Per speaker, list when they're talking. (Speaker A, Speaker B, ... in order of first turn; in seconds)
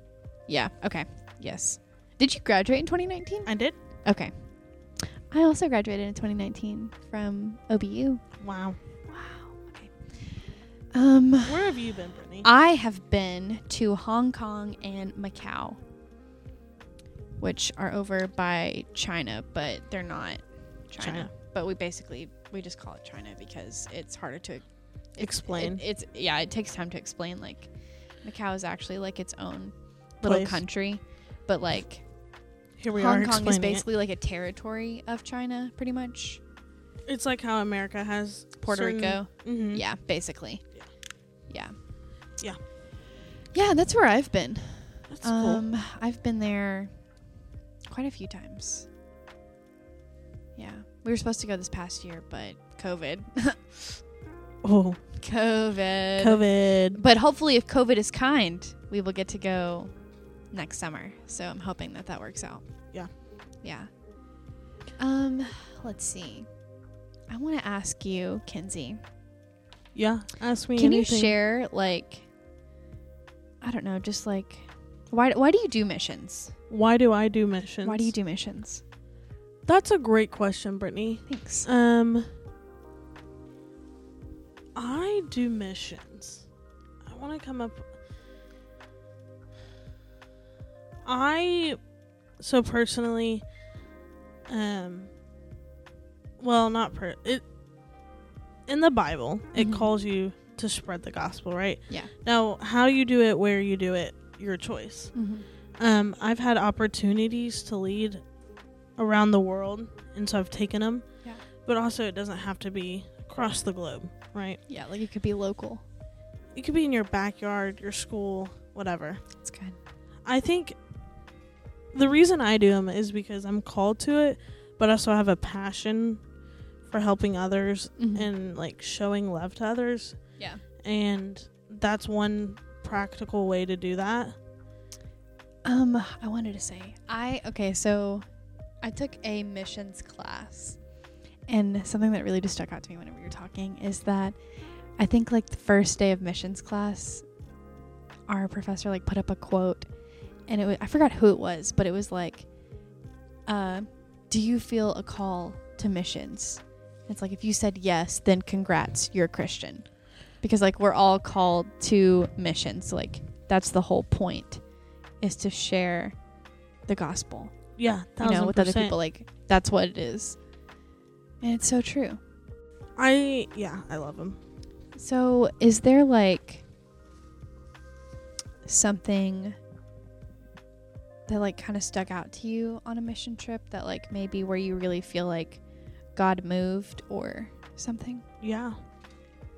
Speaker A: 0.5-8.4, 9.1-10.4, 10.9-11.7, 12.4-15.8, 17.4-27.7, 28.2-32.1, 32.9-36.4, 38.6-40.6, 41.5-41.8, 43.5-47.2, 47.9-48.9, 50.6-53.8, 55.2-59.9, 60.5-62.9, 63.6-63.9, 65.0-66.5, 67.3-69.0, 70.8-72.2, 73.6-76.5, 77.8-78.8, 81.3-81.7, 99.6-99.9, 105.2-105.5, 114.7-115.8, 119.4-119.8, 128.0-128.3, 130.4-130.6, 135.7-138.2, 138.8-140.8, 141.5-144.4, 145.0-147.3, 148.3-149.9, 150.5-152.5, 153.5-164.6, 165.2-166.2, 166.9-167.6, 168.2-170.4, 171.4-172.2, 175.0-176.6, 178.7-179.6, 181.3-185.6, 186.1-188.2
Speaker B: 3.5-3.8, 8.4-8.8, 11.4-12.5, 21.0-21.3, 25.2-25.8, 30.2-30.6, 32.8-33.8, 37.1-39.9, 45.1-45.6, 54.6-55.0, 56.2-57.0, 69.9-71.4, 76.7-78.1, 79.7-82.3, 84.8-86.5, 87.0-87.9, 91.0-93.5, 94.5-95.1, 96.4-97.4, 98.7-105.2, 105.8-108.2, 109.0-111.1, 111.6-114.6, 116.5-119.2, 120.2-120.8, 121.9-126.2, 126.8-134.3, 167.8-169.0, 173.0-174.4, 188.4-188.8